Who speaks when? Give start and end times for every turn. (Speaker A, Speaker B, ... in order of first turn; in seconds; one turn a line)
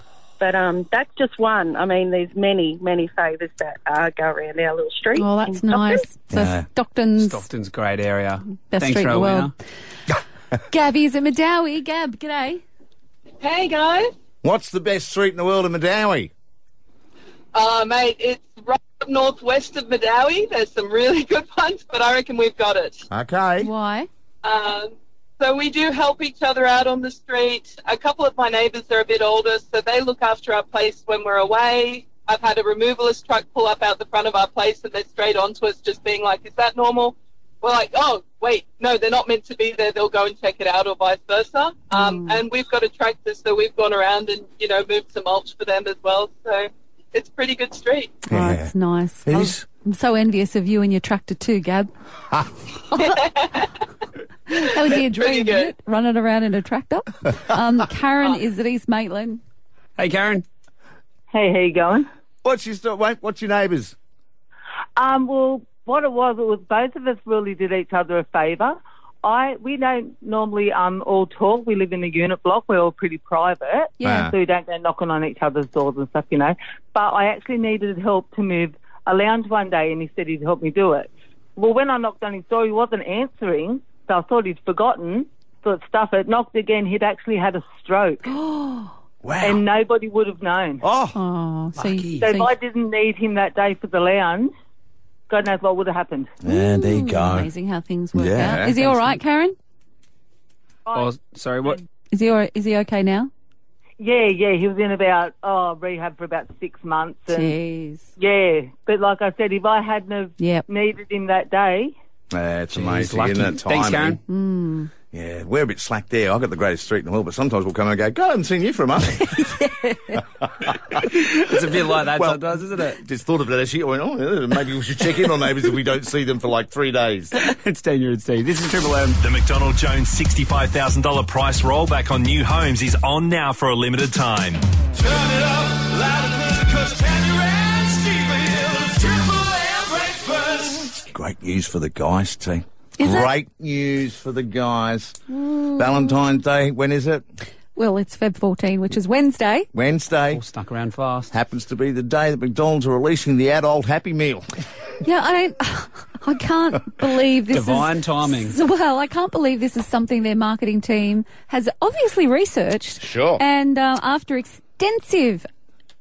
Speaker A: 0.4-6.0
Speaker B: 5.2-7.4
Speaker C: 6.3-6.6
Speaker D: 7.2-9.5
Speaker B: 8.7-9.5
Speaker B: 10.7-12.6
Speaker E: 13.4-14.1
Speaker C: 14.4-16.3
Speaker E: 17.5-23.0
Speaker C: 23.1-23.7
Speaker B: 23.6-24.1
Speaker E: 24.4-48.2
Speaker B: 41.9-42.4
Speaker C: 48.3-48.7
Speaker B: 48.3-51.9
Speaker C: 49.2-49.6
Speaker B: 52.9-53.2
Speaker E: 53.0-53.7
Speaker B: 54.5-59.4
Speaker E: 54.5-55.7
Speaker D: 60.0-60.4
Speaker F: 61.3-62.1
Speaker C: 62.4-64.0
Speaker F: 65.0-88.3
Speaker B: 74.0-74.3
Speaker C: 74.0-74.3
Speaker B: 88.2-89.0
Speaker C: 89.2-89.6
Speaker F: 89.4-90.8
Speaker C: 90.8-91.2
Speaker B: 91.1-92.5
Speaker D: 91.8-92.4
Speaker F: 92.2-94.5
Speaker F: 95.3-96.3
Speaker C: 96.4-97.5
Speaker B: 96.5-99.5
Speaker C: 98.1-98.8
Speaker D: 98.7-99.2
Speaker D: 100.9-101.8
Speaker B: 102.1-103.3
Speaker F: 104.0-107.5
Speaker B: 107.3-108.1
Speaker F: 108.2-111.9
Speaker B: 110.4-110.6
Speaker C: 112.3-114.2
Speaker D: 112.7-114.2
Speaker B: 114.3-114.9
Speaker C: 115.1-119.6
Speaker B: 119.5-120.2
Speaker C: 120.1-121.4
Speaker D: 121.3-123.0
Speaker C: 122.0-127.3
Speaker D: 127.4-129.2
Speaker G: 129.2-134.6
Speaker H: 134.9-141.0
Speaker C: 141.1-145.2
Speaker B: 143.0-143.3
Speaker B: 145.3-146.2
Speaker C: 145.8-147.2
Speaker B: 147.8-149.7
Speaker C: 149.7-150.4
Speaker D: 150.3-151.3
Speaker C: 151.3-154.4
Speaker B: 155.0-165.5
Speaker D: 157.5-158.6
Speaker C: 163.0-163.4